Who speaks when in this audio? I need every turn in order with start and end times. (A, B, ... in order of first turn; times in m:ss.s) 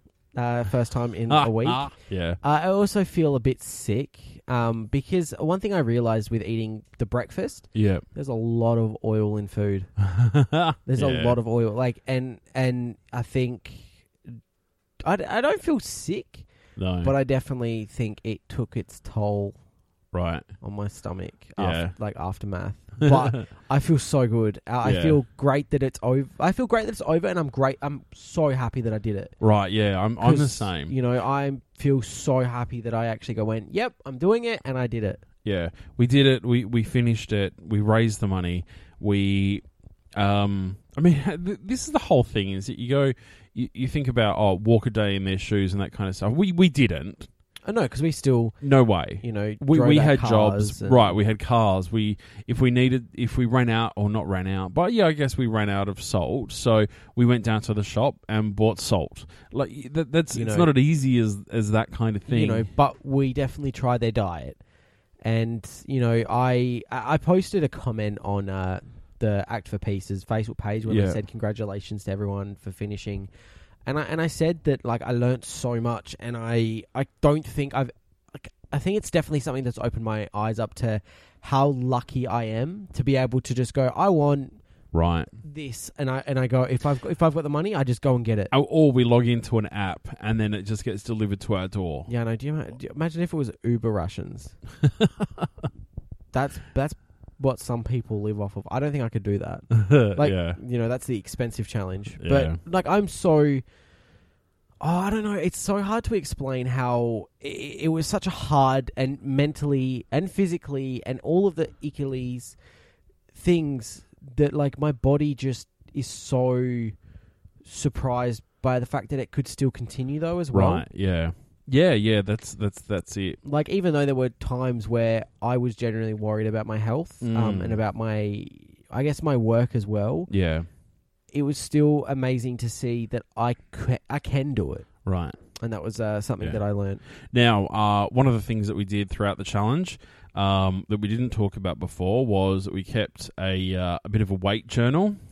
0:00.3-0:09.9 A
0:01.3-0:02.4 B
0:07.7-0:08.0 B
0:10.0-0:11.4 B
0:10.9-0:14.4 A
0:15.0-0:16.5 A
0:16.8-0:17.1 B
0:17.0-0:19.6 A
0:20.1-0:20.5 B
0:20.6-0:29.4 A
0:21.6-0:21.9 B
0:23.0-0:23.4 B
0:24.8-0:25.2 B
0:29.4-0:30.9 B
0:30.2-0:35.2 A
0:35.4-0:39.6 B
0:40.2-0:47.3 B
0:47.7-0:48.6 A
0:48.6-1:02.7 B
0:49.2-0:51.2 A
1:00.3-1:00.7 A
1:02.3-1:04.6 A
1:05.2-1:13.3 A
1:10.9-1:11.2 B
1:13.9-1:24.6 A
1:24.9-1:25.3 B
1:25.4-1:28.5 A
1:28.5-1:32.1 B
1:32.1-1:34.6 A
1:34.8-1:35.5 B
1:36.3-1:43.6 A
1:39.7-1:40.6 B
1:42.2-1:42.6 B
1:44.8-1:52.6 A
1:53.3-1:57.0 A
1:57.6-2:00.8 A
2:00.5-2:03.4 B
2:03.4-2:10.3 A
2:07.2-2:07.8 B
2:10.3-2:10.7 B
2:11.3-2:14.9 A
2:15.0-2:15.4 B
2:15.6-2:17.0 A
2:17.2-2:25.2 B